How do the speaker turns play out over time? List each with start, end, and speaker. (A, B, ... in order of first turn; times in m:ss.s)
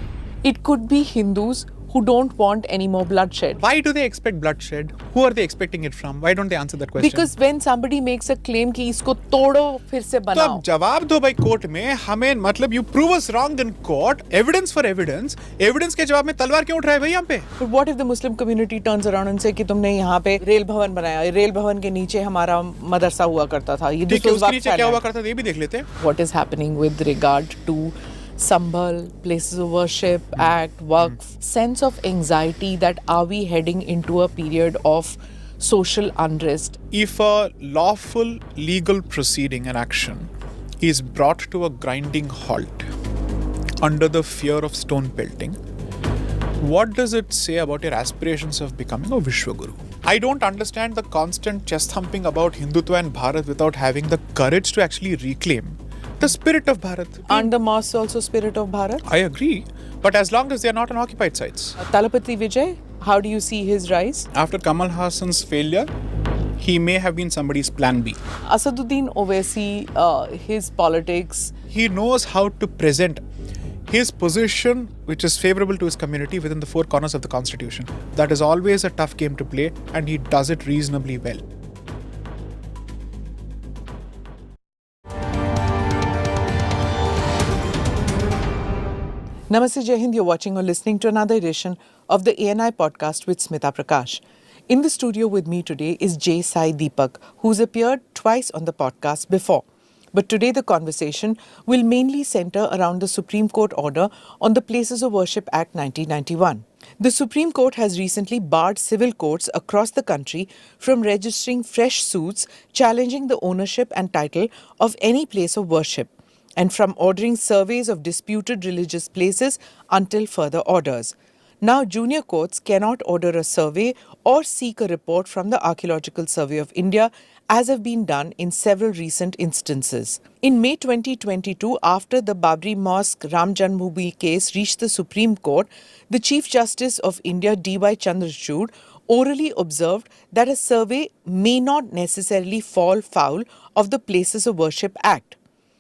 0:00.4-0:03.6 A
0:03.6-0:07.3 B
0:07.0-0:10.6 A
0:10.3-0:17.5 B
0:17.6-0:25.0 A
0:24.1-0:25.9 B
0:26.0-0:36.8 A
0:36.9-0:42.9 B
0:43.8-0:45.6 B
0:46.6-0:57.5 B
0:57.3-0:59.0 A
0:59.0-1:01.8 B
1:01.8-1:04.3 A
1:04.3-1:05.9 B
1:06.6-1:08.2 B
1:08.5-1:11.5 A
1:11.7-1:13.2 B
1:13.9-1:21.4 B
1:29.5-2:25.4 A